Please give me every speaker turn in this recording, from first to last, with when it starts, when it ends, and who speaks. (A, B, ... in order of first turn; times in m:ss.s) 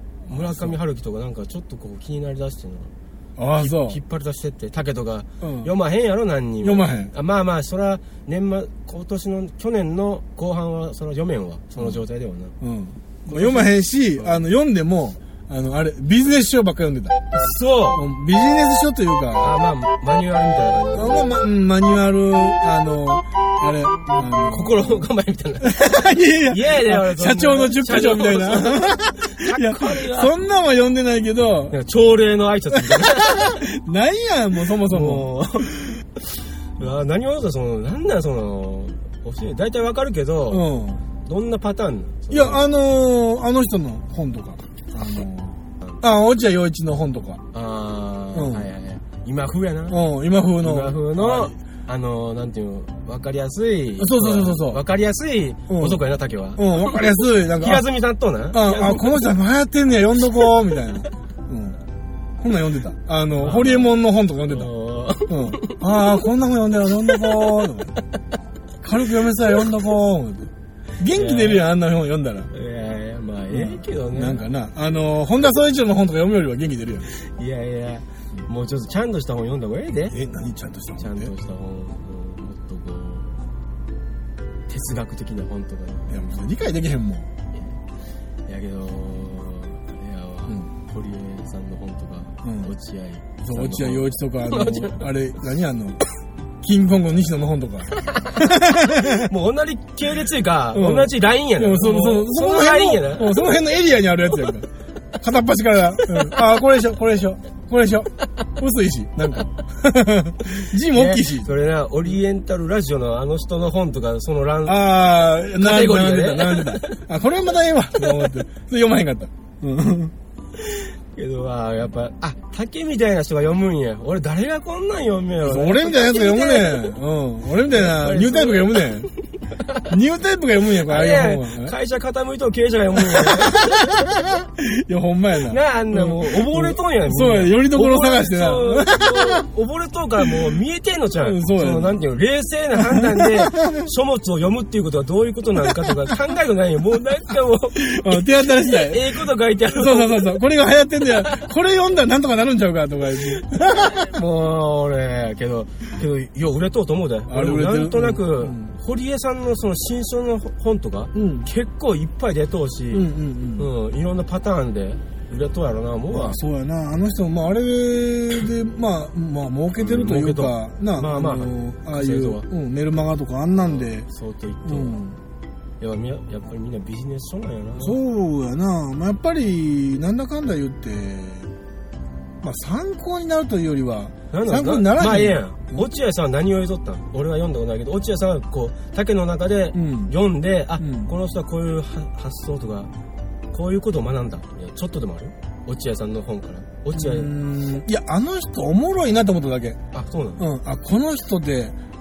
0:00.3-0:00.8 A
0:00.3-0:02.9 B
0:03.4-0:04.0 A
0:03.6-0:12.5 B
0:05.4-0:05.7 A
0:06.6-0:07.1 A
0:12.6-0:17.2 A
0:13.3-0:14.5 B
0:17.3-0:18.0 B
0:17.9-0:19.6 A
0:19.4-0:21.3 B
0:21.0-0:25.1 A
0:24.5-0:30.3 B
0:25.6-0:31.8 A
0:31.7-0:33.6 B
0:32.8-0:35.9 A
0:34.8-0:35.9 B
0:36.8-0:40.7 B
0:40.5-0:41.0 A
0:41.2-0:42.7 B
0:42.3-0:47.4 A
0:47.5-0:50.0 B
0:48.3-0:48.7 A
0:49.9-0:51.6 A
0:50.6-0:57.0 B
0:54.0-0:54.8 A
0:55.7-0:56.0 A
0:56.6-0:57.8 A
0:57.6-0:59.2 B
0:58.5-1:01.8 A
1:02.4-1:04.7 A
1:03.3-1:03.9 B
1:04.5-1:05.8 B
1:05.3-1:08.0 A
1:07.1-1:07.7 B
1:08.8-1:12.5 A
1:11.1-1:11.7 B
1:12.5-1:14.4 B
1:13.5-1:17.1 A
1:17.1-1:20.2 B
1:20.1-1:21.3 A
1:21.0-1:23.4 B
1:24.7-1:26.4 B
1:26.1-1:27.3 A
1:27.5-1:27.8 B
1:28.4-1:35.0 B
1:32.4-1:32.7 A
1:33.4-1:36.0 A
1:36.6-1:39.3 A
1:38.0-1:43.4 B
1:40.7-1:44.7 A
1:45.2-1:51.5 A
1:46.0-1:46.3 B
1:50.9-1:54.9 B
1:54.6-2:00.1 A
1:55.4-1:57.0 B
2:00.6-2:07.0 B
2:05.4-2:09.1 A
2:07.7-2:09.8 B
2:09.9-2:11.7 A
2:10.8-2:13.9 B
2:13.1-2:19.4 A
2:15.5-2:30.3 B
2:21.2-2:22.0 A
2:22.9-2:23.9 A
2:27.7-2:34.1 A
2:33.6-2:46.4 B
2:37.3-2:38.7 A
2:41.2-2:41.5 A
2:42.9-2:43.7 A
2:46.1-2:54.1 A
2:49.8-2:52.5 B
2:53.6-2:55.0 B
2:54.6-2:55.2 A
2:55.8-2:58.0 B
2:57.8-3:01.5 A
3:02.4-3:05.8 A
3:04.3-3:12.9 B
3:09.7-3:10.1 A
3:10.8-3:11.1 A
3:13.5-3:17.3 B
3:16.9-3:19.8 A
3:19.9-3:20.4 B
3:20.4-3:21.8 A